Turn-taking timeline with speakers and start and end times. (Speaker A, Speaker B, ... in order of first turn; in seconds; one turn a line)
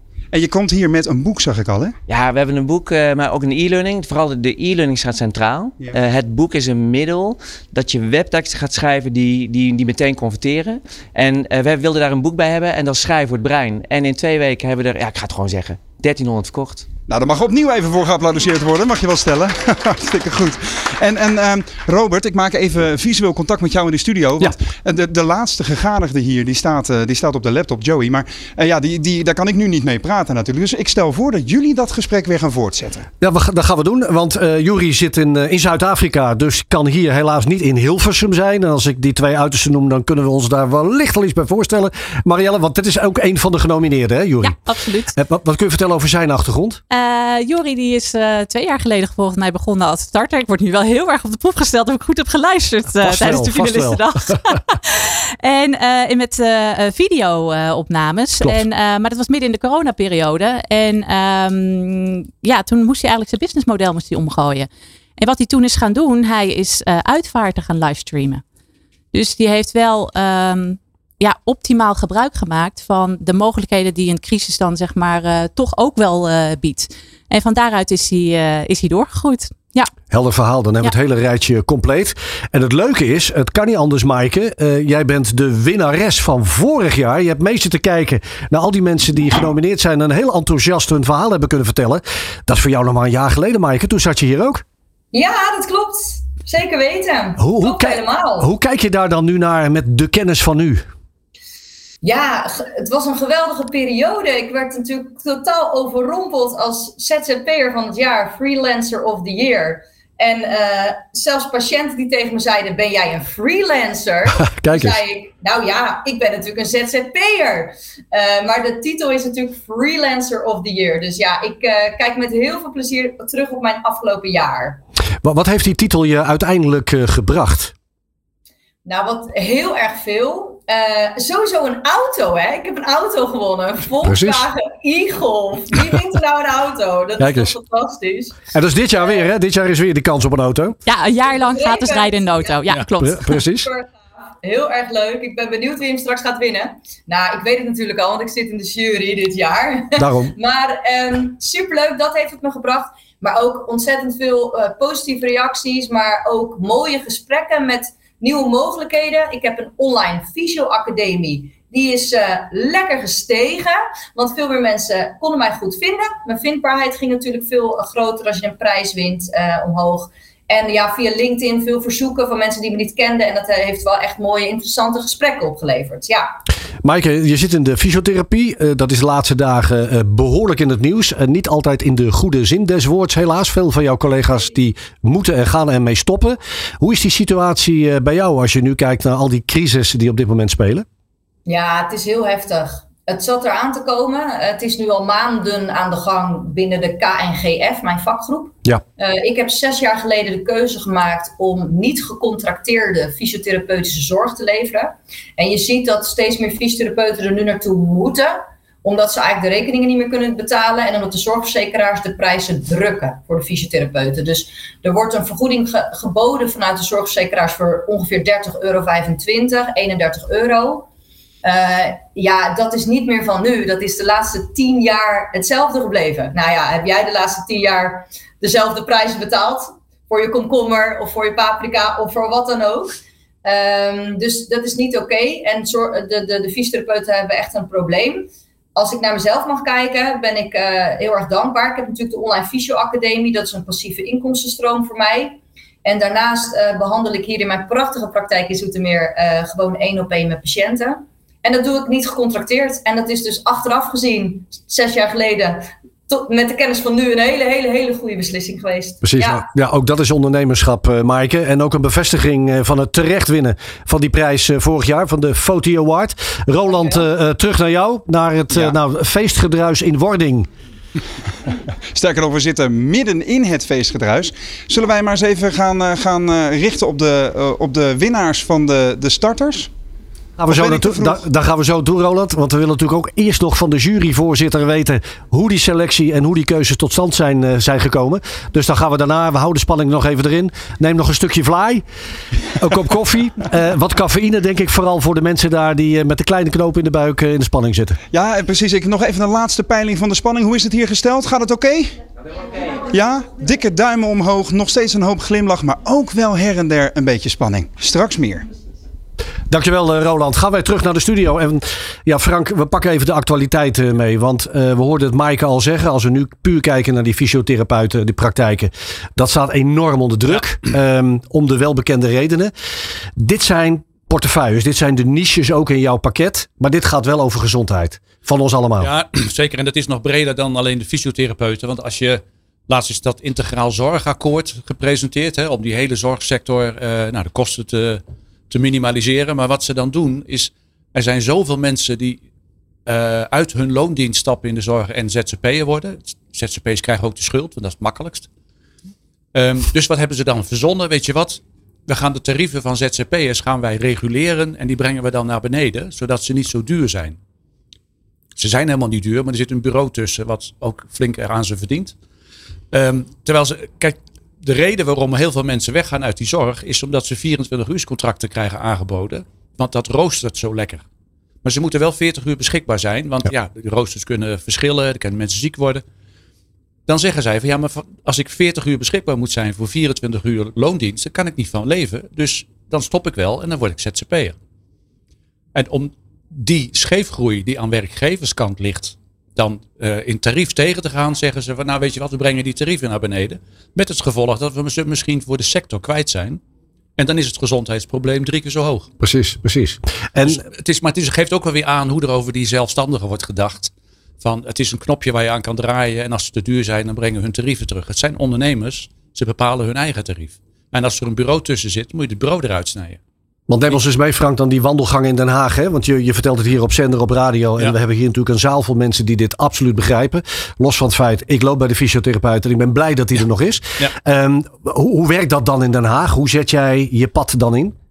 Speaker A: 0.3-1.9
Speaker B: 2.1-16.9
Speaker A: 17.1-33.1
Speaker C: 33.2-44.6
Speaker D: 44.4-45.1
Speaker C: 45.1-46.8
Speaker D: 46.9-68.4
Speaker C: 53.0-54.4
Speaker D: 69.1-79.9
Speaker C: 80.1-94.6
Speaker E: 95.1-98.5
Speaker C: 97.4-100.9
Speaker E: 102.0-124.8
Speaker C: 114.4-115.0
Speaker C: 125.2-127.7
Speaker E: 128.8-138.4
Speaker C: 134.0-134.5
Speaker C: 137.2-137.6
Speaker C: 138.5-140.8
Speaker D: 140.9-143.4
Speaker E: 141.3-142.6
Speaker C: 143.0-143.7
Speaker E: 143.5-143.9
Speaker E: 144.4-176.3
Speaker C: 150.0-150.3
Speaker C: 176.8-190.9
Speaker E: 191.5-220.9
Speaker E: 221.4-259.5
Speaker C: 259.0-270.5
Speaker A: 271.9-279.7
Speaker C: 280.4-291.8
Speaker A: 280.5-281.2
Speaker C: 292.6-298.0
Speaker A: 298.1-301.9
Speaker A: 302.9-308.5
Speaker C: 309.5-322.5
Speaker C: 323.2-328.9
Speaker F: 328.8-342.2
Speaker F: 342.9-348.3
Speaker F: 349.3-357.2
Speaker F: 358.4-361.9
Speaker F: 362.7-370.8
Speaker F: 371.4-375.8
Speaker F: 376.9-384.4
Speaker F: 385.6-396.4
Speaker F: 397.0-398.9
Speaker C: 399.0-400.4
Speaker F: 400.2-413.0
Speaker C: 413.5-427.8